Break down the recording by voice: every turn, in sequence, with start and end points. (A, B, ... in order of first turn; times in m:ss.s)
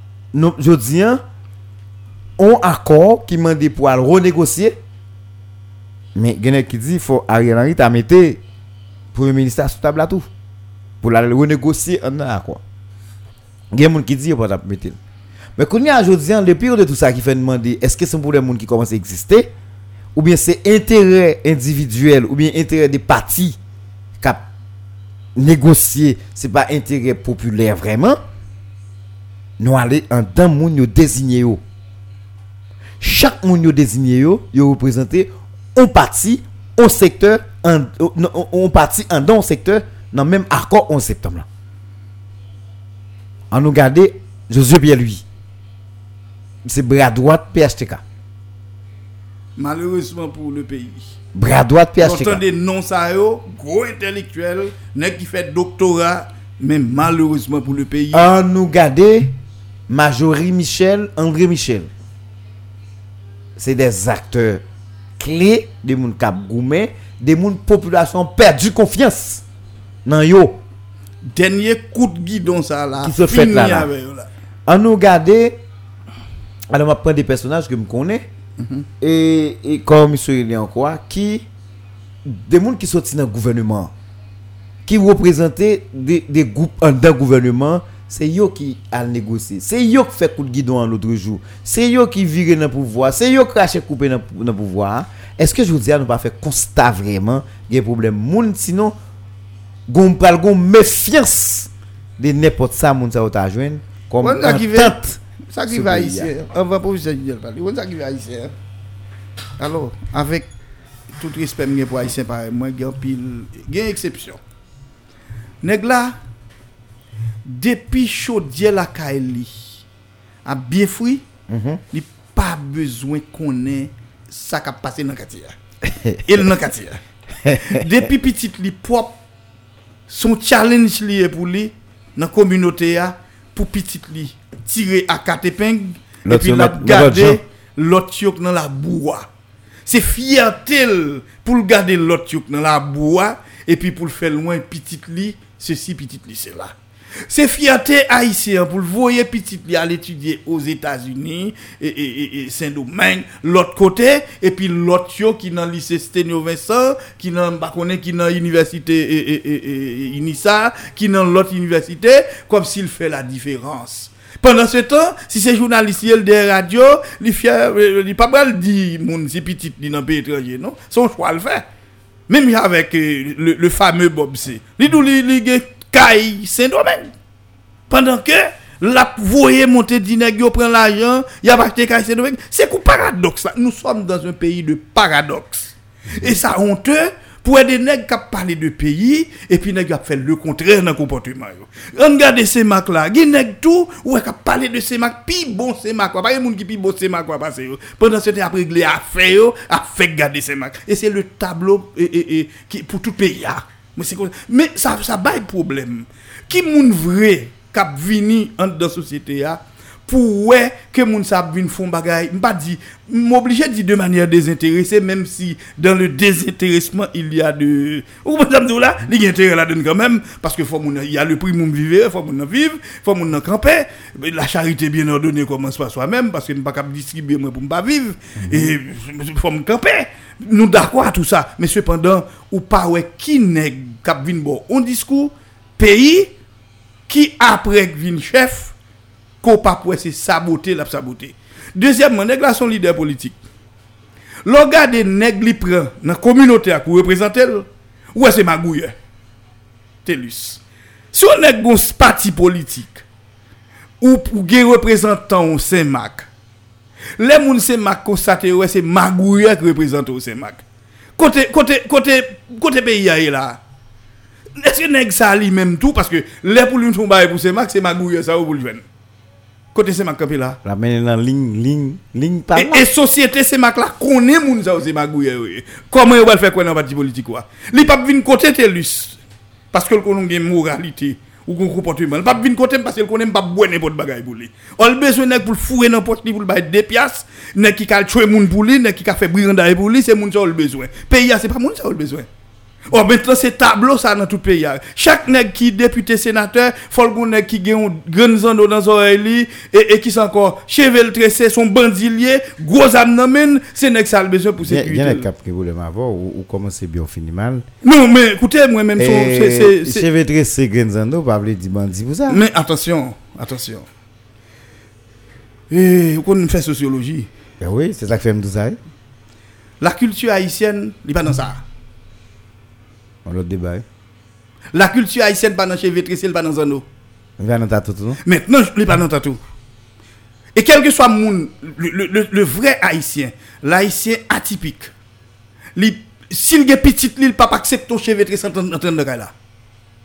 0:00.3-0:01.2 A
0:02.4-0:04.8 A
0:06.2-0:08.4 A
0:09.1-0:10.3 A
0:11.0-0:12.6 A
0:13.7-0:15.0 A
0:15.6-0:19.5 A
0:20.2-0:23.6 A
0:25.4-0:28.2 A
0:29.6-0:31.6 A
0:33.0-0:41.5 A
0:43.5-0:45.2 A
0:46.6-0:48.0 A
0:49.6-0:51.1 B
0:51.4-0:52.4 A
0:52.0-0:58.3 B
0:58.1-0:59.3 A
0:59.9-1:01.9 A
1:03.6-1:04.6 A
1:05.2-1:09.4 A
1:10.0-1:10.6 A
1:11.2-1:14.3 B
1:13.0-1:13.9 A
1:14.7-1:15.6 A
1:16.7-1:18.3 A
1:18.6-1:18.8 B
1:19.0-1:21.5 A
1:22.2-1:23.9 A
1:24.9-1:39.0 A
1:39.9-1:46.3 A
1:44.2-1:45.0 B
1:45.5-1:48.5 B
1:49.6-1:50.5 B
1:51.2-1:54.4 B
1:55.6-1:56.2 B
1:57.5-1:59.8 B
2:00.4-2:01.2 B
2:01.5-2:01.8 A
2:01.9-2:05.6 B
2:05.8-2:06.5 A
2:06.2-2:07.0 B
2:07.4-2:07.8 A
2:07.6-2:09.2 B
2:10.1-2:19.3 B
2:16.2-2:17.4 A
2:19.9-2:26.7 B
2:27.3-2:51.6 B
2:52.3-2:57.1 B
2:57.9-3:56.3 B
3:48.4-3:48.7 A
3:57.1-3:58.7 B
3:59.4-4:03.4 B
4:04.5-4:08.9 B
4:10.0-4:10.6 B
4:11.1-4:13.0 B
4:14.0-4:16.3 B
4:17.2-4:20.6 B
4:21.2-4:23.6 B
4:24.6-4:28.8 B
4:29.7-4:30.6 B
4:30.6-4:32.9 A
4:32.6-4:39.2 B
4:39.7-4:52.3 B
4:52.9-5:05.3 B
5:04.6-5:07.7 A
5:07.8-5:10.1 B
5:09.0-5:12.4 A
5:12.3-5:13.9 B
5:15.7-5:17.3 B
5:17.6-5:18.8 A
5:19.8-5:21.6 B
5:23.2-5:23.8 A
5:24.7-5:26.8 B
5:27.4-5:28.2 A
5:28.2-5:29.4 B
5:30.6-5:34.9 B
5:35.8-5:39.3 B